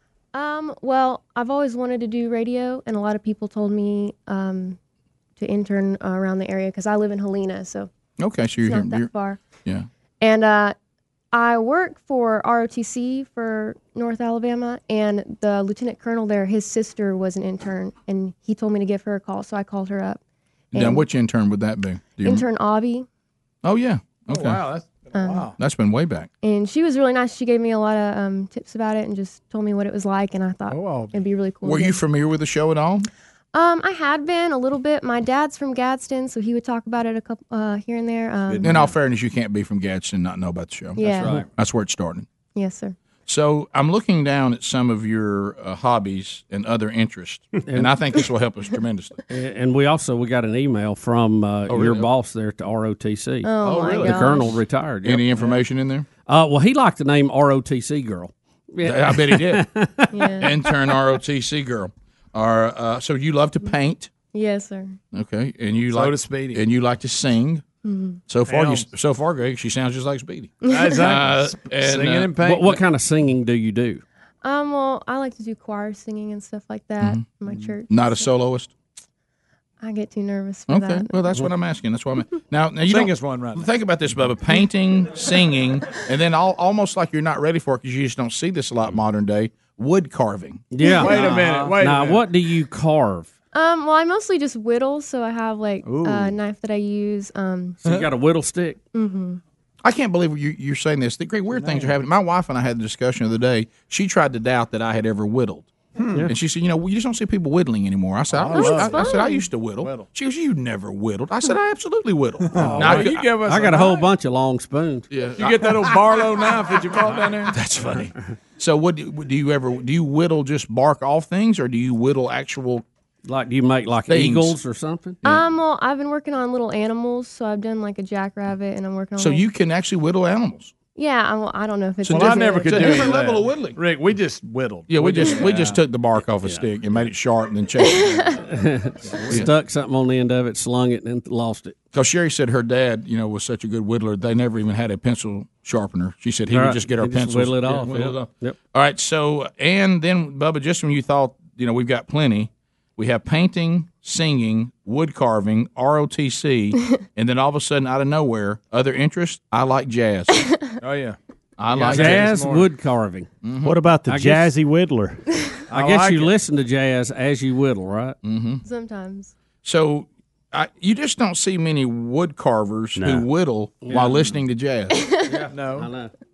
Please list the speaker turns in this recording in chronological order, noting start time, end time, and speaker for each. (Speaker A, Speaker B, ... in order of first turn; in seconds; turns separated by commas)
Speaker A: 0.3-4.8, Speaker A: 5.4-7.9, Speaker B: 8.2-9.1, Speaker A: 8.6-9.4, Speaker A: 10.2-10.7, Speaker A: 11.3-20.2, Speaker A: 20.7-21.1, Speaker B: 20.7-22.4, Speaker A: 22.2-23.1, Speaker B: 23.6-24.6, Speaker C: 24.3-25.6, Speaker A: 25.1-25.5, Speaker B: 25.6-26.3, Speaker A: 26.4-32.0, Speaker C: 30.7-31.2, Speaker B: 31.6-33.1, Speaker A: 33.5-38.8, Speaker D: 38.5-38.9, Speaker B: 38.6-42.2, Speaker D: 41.0-41.5, Speaker A: 41.0-41.4, Speaker A: 42.5-43.0, Speaker B: 43.3-49.2, Speaker E: 47.7-47.9, Speaker E: 49.3-55.6, Speaker B: 51.7-52.1, Speaker A: 53.4-54.6, Speaker B: 53.7-54.5, Speaker B: 55.0-56.1, Speaker E: 56.2-60.3, Speaker B: 58.8-59.6, Speaker A: 60.1-60.5, Speaker B: 60.4-64.1, Speaker A: 64.3-65.0, Speaker B: 65.1-67.6, Speaker C: 65.9-66.6, Speaker A: 67.8-68.2, Speaker B: 68.3-72.3, Speaker C: 68.5-68.9, Speaker A: 70.6-71.0, Speaker C: 70.7-72.8, Speaker E: 72.4-74.0, Speaker A: 74.4-78.3, Speaker B: 77.0-77.2, Speaker B: 77.9-78.7, Speaker A: 79.8-81.4, Speaker B: 80.7-90.7, Speaker C: 82.8-83.7, Speaker E: 90.7-93.3, Speaker C: 90.9-92.2, Speaker D: 91.1-91.8, Speaker A: 93.5-97.8, Speaker D: 95.8-96.4, Speaker E: 97.8-98.8, Speaker A: 98.9-99.4, Speaker B: 99.8-105.7, Speaker D: 101.5-101.9, Speaker D: 106.0-106.3, Speaker B: 106.3-113.3, Speaker C: 108.3-110.1, Speaker A: 108.5-109.5, Speaker D: 112.5-112.9, Speaker C: 112.5-114.0, Speaker E: 113.0-115.1, Speaker B: 115.1-116.2, Speaker C: 115.4-117.6, Speaker B: 117.5-122.8, Speaker E: 123.2-125.2, Speaker B: 124.1-124.5, Speaker A: 125.2-129.4, Speaker B: 129.2-130.7, Speaker A: 130.9-133.1, Speaker B: 132.1-133.8, Speaker C: 132.1-135.8, Speaker B: 134.9-138.1, Speaker D: 135.4-135.7, Speaker A: 137.8-138.4, Speaker E: 138.4-141.8, Speaker B: 141.9-160.3, Speaker E: 146.5-148.6, Speaker C: 160.8-161.2, Speaker B: 161.6-162.4, Speaker C: 161.7-162.7, Speaker E: 161.9-163.3, Speaker B: 163.4-163.8, Speaker F: 163.6-165.2, Speaker E: 164.1-164.5, Speaker C: 165.7-166.3, Speaker E: 165.7-168.2, Speaker B: 168.2-168.6, Speaker A: 168.6-169.3, Speaker B: 169.6-174.9, Speaker F: 172.9-173.3, Speaker C: 173.9-174.3, Speaker A: 174.9-175.5, Speaker E: 175.2-176.1, Speaker C: 175.5-175.9